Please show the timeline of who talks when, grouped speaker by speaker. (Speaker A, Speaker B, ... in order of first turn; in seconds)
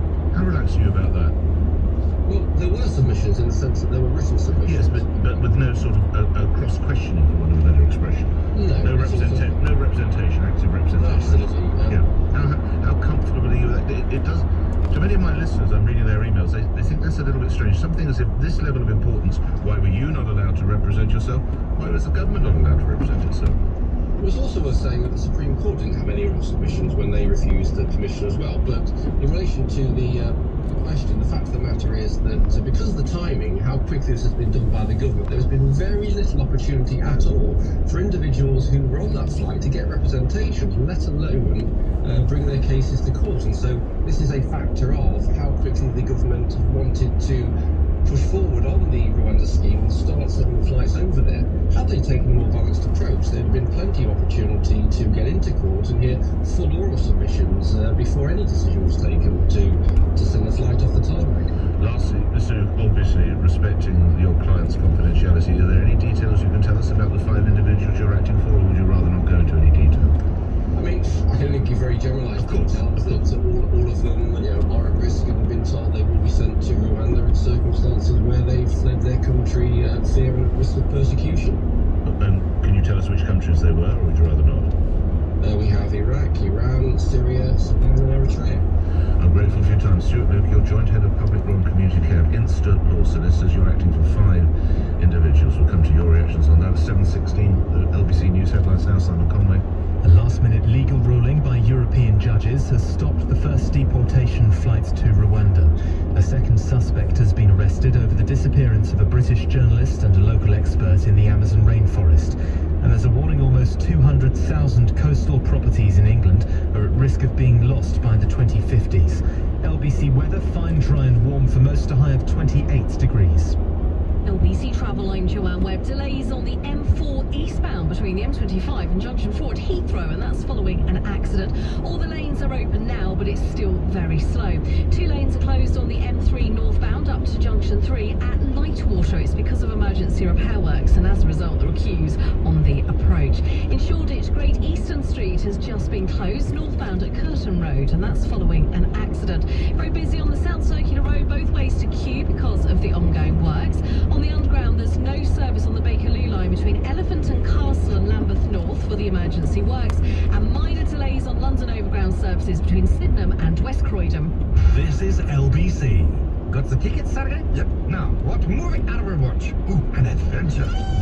Speaker A: 0.3-1.4, 4.6-23.6, 61.8-70.1, 72.4-73.2, 82.0-84.7, 89.2-99.6
Speaker B: 2.2-5.2, 8.5-9.6, 10.9-12.0, 24.2-61.5, 70.7-81.6, 85.4-88.6
Speaker C: 100.0-123.6
Speaker D: 124.2-164.3
Speaker E: 164.7-170.7